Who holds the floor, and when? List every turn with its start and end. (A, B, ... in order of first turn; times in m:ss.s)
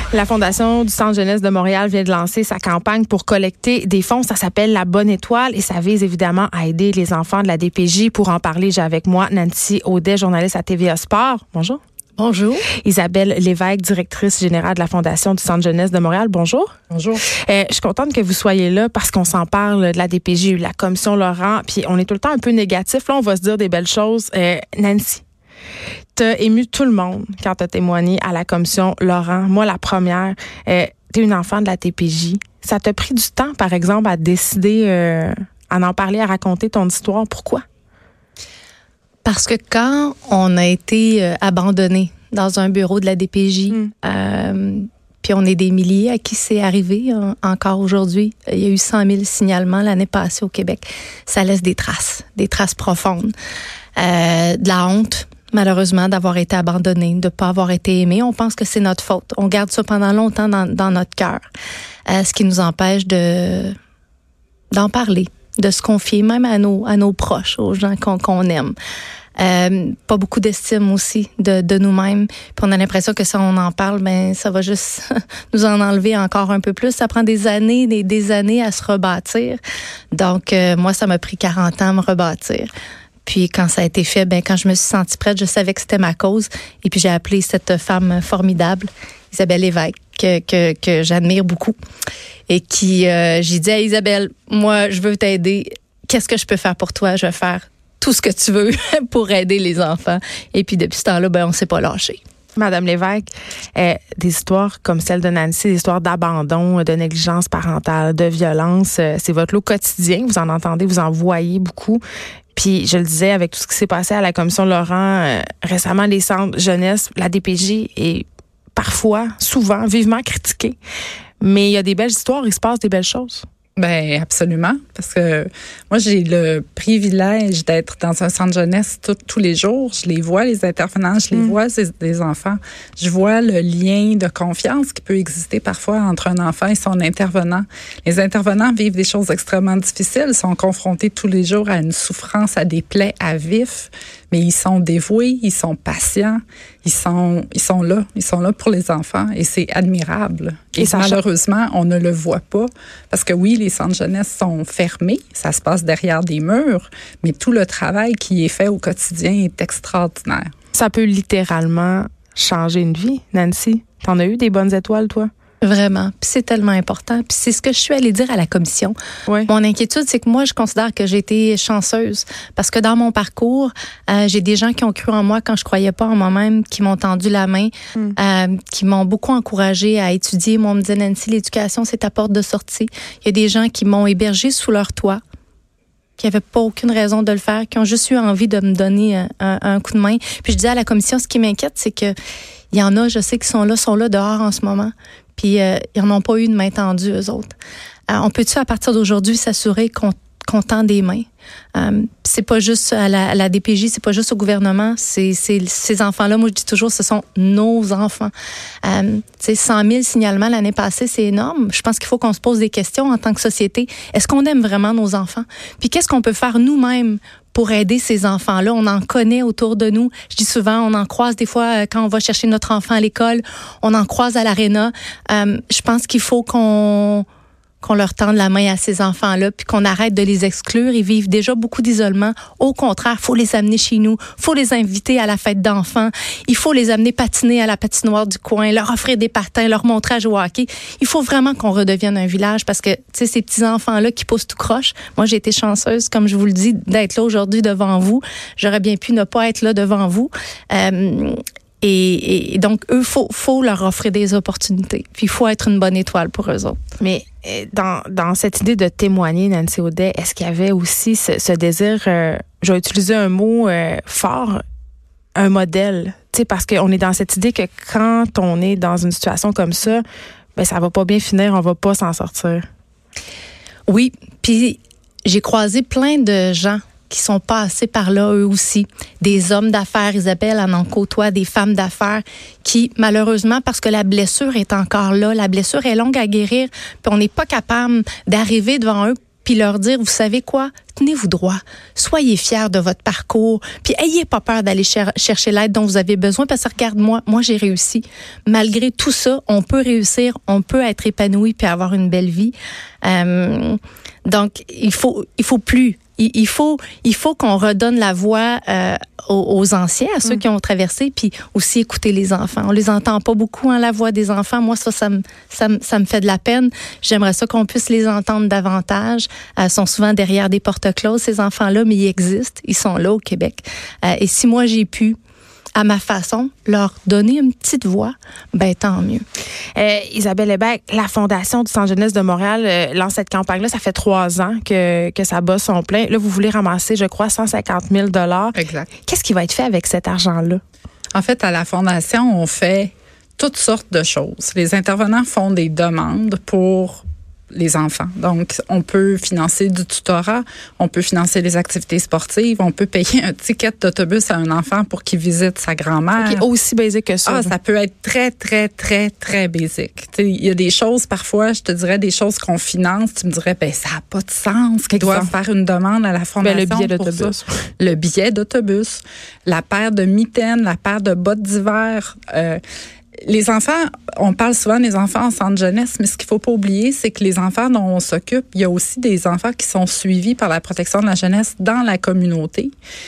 0:00.1-0:11.8 A
0:12.2-0:12.6 B
0:12.8-0:16.7 A
0:16.9-0:17.2 C
0:17.2-0:25.2 A
0:26.1-0:37.6 A
0:39.2-0:53.3 B
0:54.0-1:01.4 B
1:02.1-1:03.8 B
1:04.7-1:08.7 B
1:09.4-1:19.6 B
1:20.1-1:22.7 B
1:23.2-1:31.7 B
1:32.5-1:42.2 B
1:42.6-1:52.0 A
1:52.5-2:00.8 A
2:01.4-2:03.4 A
2:03.8-2:40.5 C
2:11.3-2:11.6 A
2:30.8-2:31.2 A
2:40.7-2:45.3 A
2:45.6-2:49.0 B
2:49.5-3:05.2 B
3:06.2-3:12.1 B
3:12.7-3:17.5 B
3:18.1-3:28.3 B
3:28.8-3:47.2 B
3:47.8-4:16.8 B
4:17.0-4:24.6 A
4:25.3-4:30.0 A
4:30.6-4:32.6 A
4:33.9-5:25.2 B
5:25.8-5:29.2 B
5:29.7-5:40.6 A
5:38.5-5:38.9 C
5:41.1-5:56.4 C
5:56.2-5:57.5 A
5:57.3-6:12.6 C
6:04.9-6:05.3 A
6:06.4-6:07.7 A
6:13.3-6:22.7 C